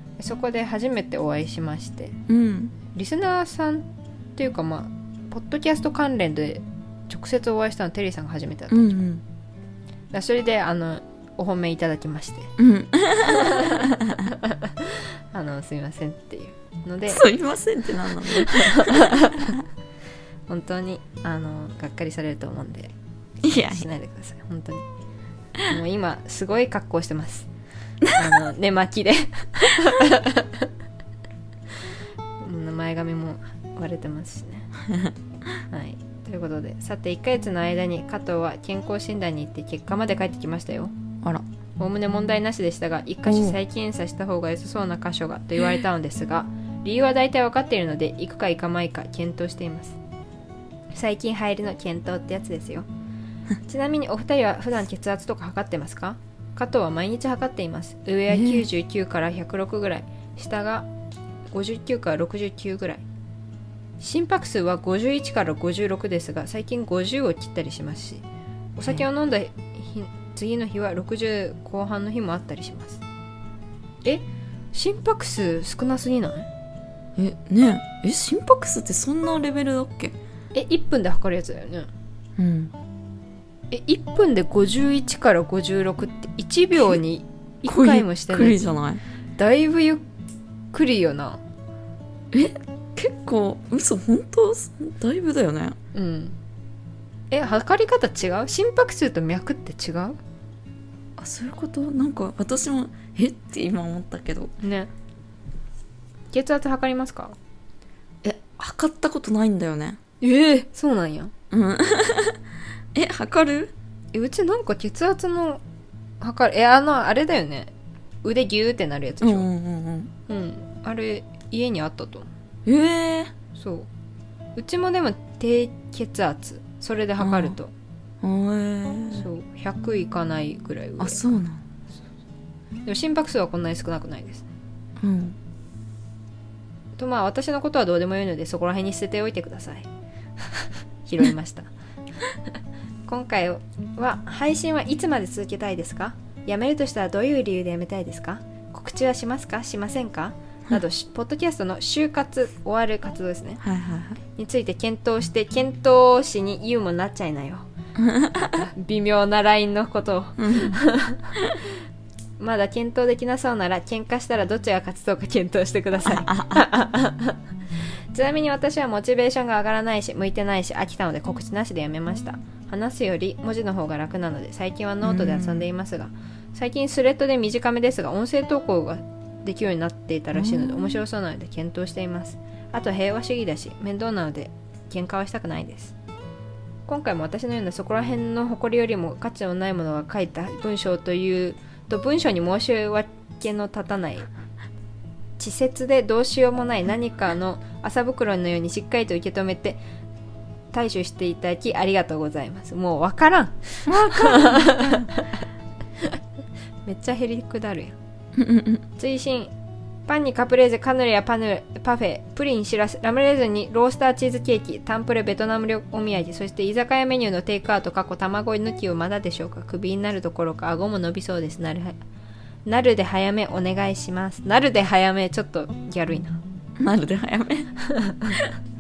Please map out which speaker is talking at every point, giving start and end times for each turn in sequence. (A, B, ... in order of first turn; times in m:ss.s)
0:00.2-0:02.2 A
0:02.3-0:02.8 B
0:02.9-0:09.0 A
0:08.7-0:09.2 B
0:10.1-0:12.6 A
0:12.6-0:14.3 B
0:13.2-0:17.2 A
0:17.1-0:19.6 B
0:18.2-0:19.6 A
0:20.5-0:24.8 A
0:23.4-0:23.9 B
0:25.6-0:27.5 A
0:28.1-0:30.7 A
0:32.4-0:34.7 A
0:34.9-0:35.1 B
0:35.7-0:40.9 A
0:41.8-0:50.0 A
0:43.3-0:43.6 B
0:50.9-0:52.9 A
0:53.7-1:00.9 A
0:58.3-0:58.7 B
1:01.5-1:03.0 A
1:04.0-1:08.2 A
1:08.8-1:13.0 A
1:14.0-1:16.5 A
1:17.2-1:20.2 B
1:20.5-1:21.9 A
1:22.4-1:22.7 B
1:23.7-1:28.7 A
1:27.6-1:29.0 B
1:29.4-1:30.0 A
1:30.7-1:31.4 A
1:32.3-1:35.8 B
1:35.9-1:36.4 A
1:37.3-1:40.2 A
1:41.2-1:44.5 B
1:44.6-1:44.9 A
1:46.3-1:47.4 A
1:48.2-1:50.0 B
1:50.2-1:51.3 A
1:51.5-1:52.4 B
1:52.9-1:53.7 B
1:54.1-1:55.6 A
1:56.2-1:57.7 A
1:58.2-1:59.5 A
1:59.2-2:00.1 B
2:00.3-2:02.3 A
2:02.7-2:03.3 B
2:03.6-2:03.9 A
2:04.6-2:07.7 A
2:07.2-2:07.6 B
2:08.2-2:09.3 B
2:09.1-2:11.3 A
2:11.0-2:11.6 B
2:12.9-2:14.5 A
2:15.0-2:15.4 B
2:17.0-2:19.9 A
2:20.4-2:21.7 A
2:23.1-2:33.6 A
2:33.6-2:34.2 B
2:34.4-2:37.7 A
2:38.0-2:38.7 B
2:38.5-2:41.4 A
2:40.4-2:40.8 B
2:42.4-2:47.4 A
2:46.0-2:46.7 B
2:48.1-3:06.0 A
2:55.0-2:55.7 B
3:00.3-3:01.0 B
3:06.9-3:14.3 A
3:15.4-3:19.8 A
3:20.7-3:25.4 A
3:23.9-3:25.1 B
3:26.9-3:28.0 A
3:28.4-3:28.8 B
3:29.0-3:29.5 A
3:30.1-3:42.0 A
3:42.7-3:46.4 A
3:46.8-3:47.7 B
3:47.8-3:48.5 A